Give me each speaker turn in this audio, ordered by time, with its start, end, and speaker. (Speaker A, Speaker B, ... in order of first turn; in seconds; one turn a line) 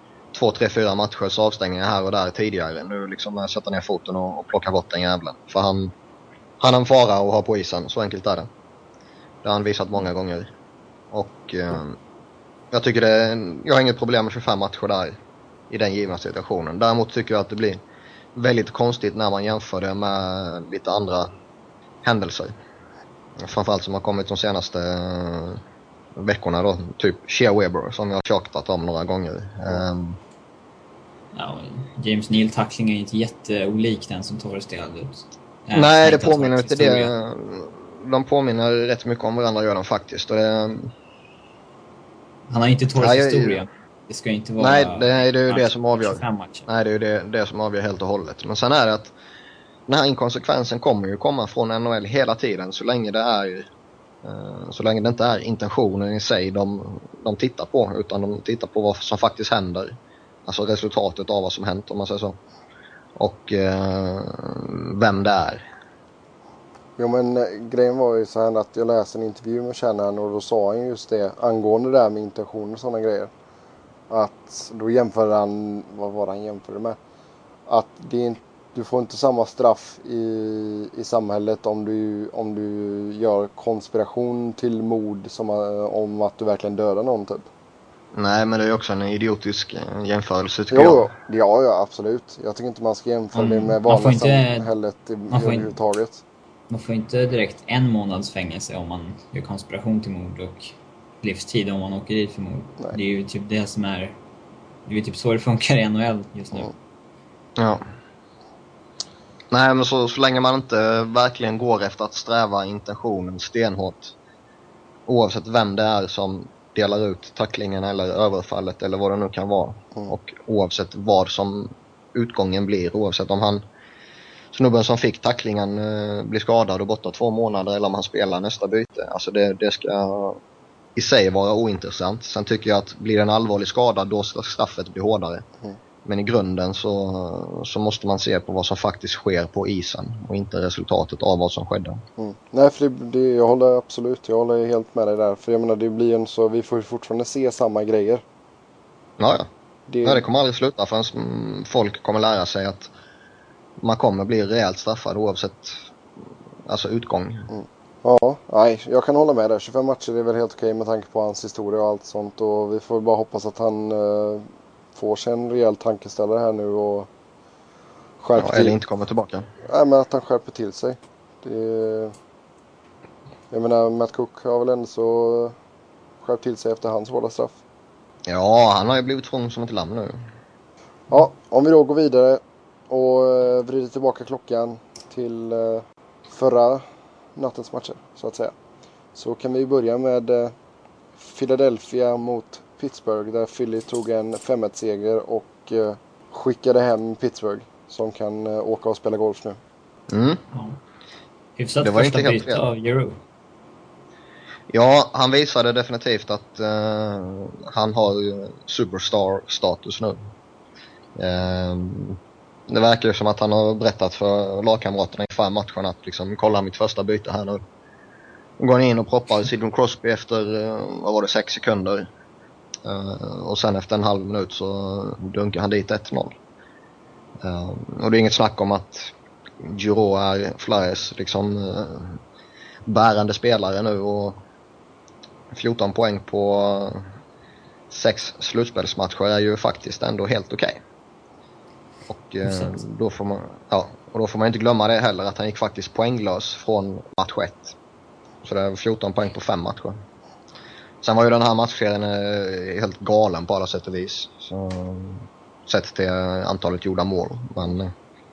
Speaker A: 0.3-5.9
Speaker A: 6.6-8.5
Speaker A: 9.4-10.5
Speaker A: 11.1-12.0
Speaker A: 12.7-15.2
Speaker A: 15.7-17.8
Speaker A: 18.4-21.3
Speaker A: 22.0-22.5
Speaker A: 23.4-25.6
Speaker A: 26.2-30.2
Speaker B: 31.3-37.1
Speaker A: 35.7-40.9
Speaker B: 42.5-46.7
Speaker A: 43.0-43.6
Speaker A: 44.6-49.1
Speaker A: 49.9-53.7
Speaker A: 54.2-60.0
Speaker A: 60.5-62.4
Speaker A: 63.2-65.7
Speaker C: 67.0-73.3
Speaker C: 74.1-77.0
Speaker C: 77.7-87.5
Speaker A: 88.1-91.1
Speaker C: 90.7-96.2
Speaker B: 93.3-94.7
Speaker B: 95.3-95.7
Speaker B: 96.7-104.2
Speaker B: 104.9-106.7
Speaker A: 107.6-107.8
Speaker A: 109.5-114.2
Speaker A: 115.1-123.7
Speaker A: 124.5-130.4
Speaker A: 131.0-135.4
Speaker A: 136.1-142.0
Speaker C: 142.2-148.2
Speaker A: 149.2-149.5
Speaker C: 149.9-150.2
Speaker A: 150.0-152.9
Speaker A: 153.8-155.8
Speaker A: 156.7-157.5
Speaker C: 157.5-167.1
Speaker C: 168.2-168.8
Speaker A: 168.4-169.5
Speaker C: 169.7-172.1
Speaker C: 173.5-175.6
Speaker C: 176.2-177.6
Speaker A: 178.3-180.2
Speaker C: 181.1-186.8
Speaker C: 187.4-188.5
Speaker C: 189.2-190.5
Speaker C: 191.2-199.6
Speaker A: 200.1-200.4
Speaker B: 200.5-200.8
Speaker B: 201.6-203.2
Speaker A: 201.8-202.6
Speaker A: 204.7-210.2
Speaker A: 211.2-217.6
Speaker A: 218.6-222.1
Speaker A: 222.8-226.4
Speaker A: 227.4-232.2
Speaker A: 232.9-234.4
Speaker A: 235.5-237.1
Speaker A: 237.9-240.8
Speaker A: 242.1-247.8
Speaker B: 242.4-242.8
Speaker A: 248.4-250.0
Speaker A: 251.0-257.9